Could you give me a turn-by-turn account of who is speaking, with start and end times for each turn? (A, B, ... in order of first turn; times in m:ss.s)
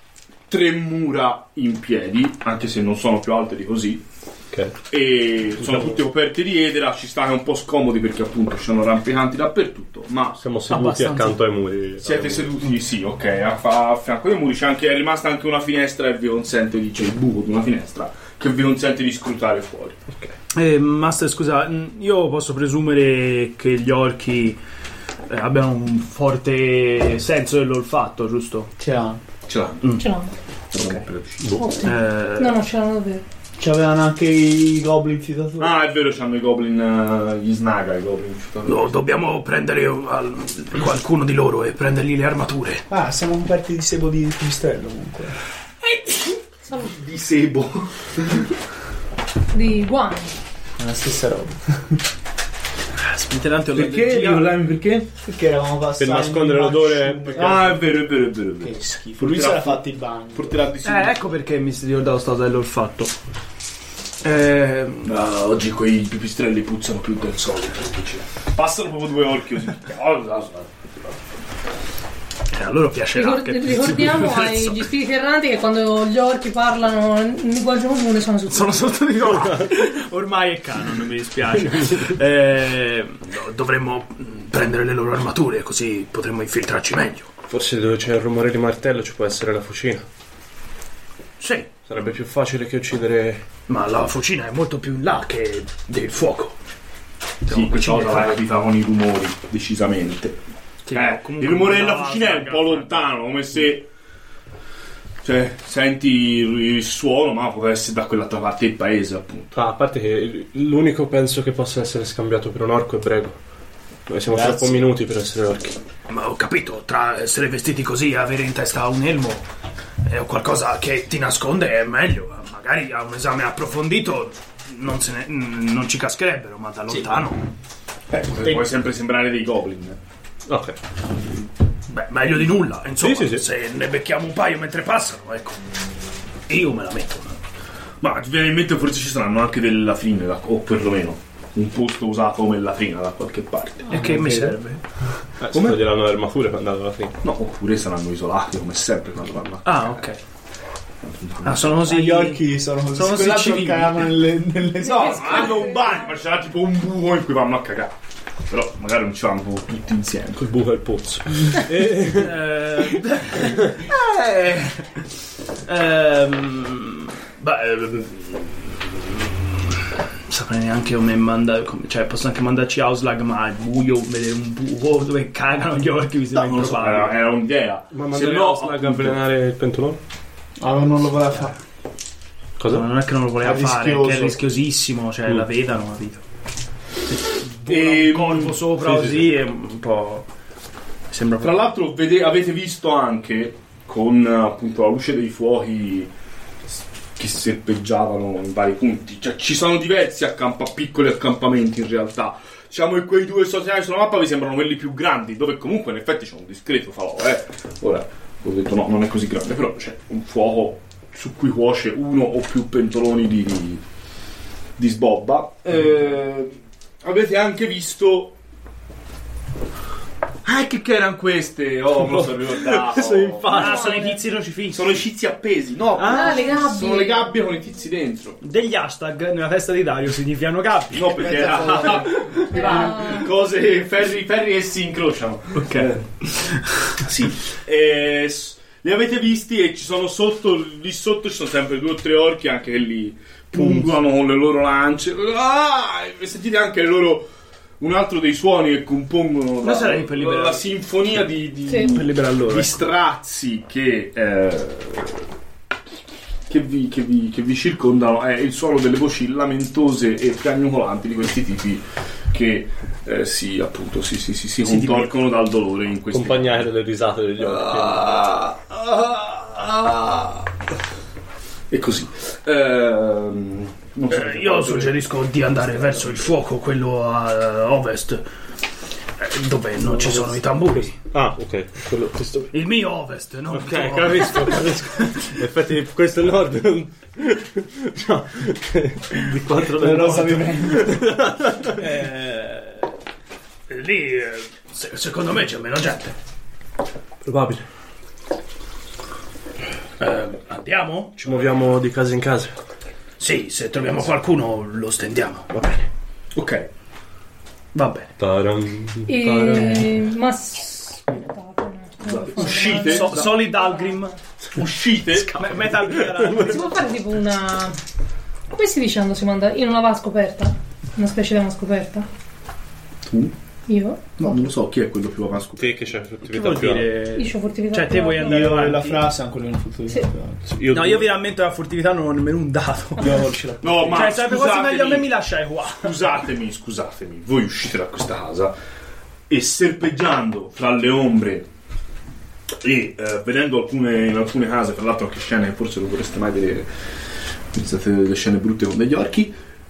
0:00.5-0:04.0 A
0:04.9-0:10.4 A
0:05.6-0:06.0 B
0:10.4-0:12.5 B
0:10.7-0:11.4 C
0:12.0-0:20.0 A
0:20.5-0:24.6 C
0:25.3-0:28.7 C
0:28.8-0:29.2 D
0:29.5-0:30.0 A
0:30.0-0:30.4 E
0:30.7-0:31.5 A
0:31.6-0:33.2 E
0:31.8-0:32.6 C
0:33.6-0:35.8 D
0:35.6-0:39.0 A
0:38.6-0:42.8 C
0:42.9-0:45.4 D
0:45.8-0:48.4 A
0:49.5-0:50.3 E
0:50.8-0:52.0 D
0:52.9-0:54.5 C
0:53.7-0:55.1 A
0:55.2-0:57.9 D
0:56.0-0:57.4 B
0:57.3-0:59.8 A
0:58.6-1:00.7 D
1:00.3-1:01.4 A
1:00.8-1:03.1 C
1:04.2-1:05.2 C
1:05.0-1:11.2 A
1:12.5-1:14.9 C
1:13.1-1:19.0 E
1:18.5-1:27.3 C
1:19.4-1:19.7 B
1:27.5-1:30.1 B
1:31.4-1:31.7 C
1:31.8-1:33.4 B
1:33.7-1:36.6 C
1:37.4-1:38.4 C
1:37.5-1:40.4 A
1:40.8-1:43.1 C
1:40.9-1:43.9 A
1:45.2-1:49.5 A
1:49.5-1:53.4 B
1:54.1-1:55.8 B
1:54.3-1:54.9 D
1:56.1-1:59.4 C
2:00.1-2:07.4 C
2:08.1-2:10.0 A
2:08.2-2:08.6 D
2:10.5-2:10.8 B
2:11.9-2:15.6 C
2:13.0-2:13.4 B
2:16.5-2:17.4 C
2:18.0-2:24.3 A
2:23.9-2:24.8 C
2:24.0-2:24.6 D
2:25.4-2:27.2 B
2:25.5-2:25.9 A
2:27.2-2:30.0 A
2:29.6-2:30.2 C
2:31.0-2:31.9 A
2:31.4-2:34.0 C
2:31.8-2:35.6 D
2:34.8-2:37.9 A
2:34.9-2:36.1 E
2:38.5-2:41.6 A
2:40.6-2:42.4 B
2:42.1-2:45.0 C
2:43.4-2:43.8 B
2:45.6-2:49.7 C
2:50.3-2:57.2 C
2:56.4-2:59.2 A
2:57.9-3:00.0 B
3:00.6-3:01.6 D
3:02.6-3:02.9 B
3:02.7-3:06.2 C
3:03.4-3:04.4 D
3:07.1-3:10.3 C
3:07.7-3:08.6 A
3:08.8-3:09.2 B
3:11.1-3:11.7 C
3:11.4-3:16.1 A
3:17.2-3:33.8 A
3:34.8-3:38.4 A
3:40.4-3:43.8 A
3:42.0-3:43.9 B
3:43.4-3:45.0 C
3:43.6-3:44.2 E
3:44.7-3:48.4 A
3:46.0-3:46.6 C
3:46.0-3:47.3 E
3:48.4-3:52.6 C
3:50.9-3:56.1 A
3:51.2-3:52.9 D
3:52.5-3:53.3 E
3:55.6-3:57.0 C
3:57.0-4:15.2 A
4:03.6-4:03.9 C
4:09.6-4:10.7 C
4:11.7-4:11.9 E
4:11.8-4:12.8 C
4:16.5-4:26.7 A
4:24.6-4:25.1 C
4:26.1-4:28.1 B
4:27.4-4:30.5 A
4:31.7-4:36.1 A
4:34.1-4:38.2 C
4:39.2-4:41.0 C
4:39.8-4:42.5 B
4:42.5-4:45.4 C
4:43.5-4:51.8 B
4:49.7-4:51.1 D
4:51.8-4:52.9 C
4:53.7-4:56.2 C
4:57.2-4:57.6 B
5:00.0-5:01.4 C
5:01.2-5:02.6 B
5:03.2-5:05.6 C
5:05.5-5:05.8 B
5:06.3-5:06.7 A
5:07.7-5:08.1 C
5:08.2-5:10.0 B
5:09.1-5:14.1 E
5:12.0-5:13.4 A
5:12.4-5:14.2 C
5:14.6-5:15.5 A
5:15.2-5:16.8 C
5:15.4-5:16.4 B
5:16.3-5:17.8 E
5:18.5-5:22.1 E
5:23.0-5:23.3 A
5:23.7-5:24.0 E
5:24.2-5:25.8 A
5:25.6-5:26.9 B
5:26.2-5:29.1 C
5:27.1-5:28.7 E
5:28.2-5:30.4 D
5:30.5-5:31.1 B
5:30.7-5:33.2 C
5:33.0-5:34.2 D
5:33.6-5:35.1 A
5:33.9-5:36.0 C
5:35.8-5:38.5 A
5:39.3-5:41.4 A
5:42.6-5:46.7 A
5:47.5-5:49.4 A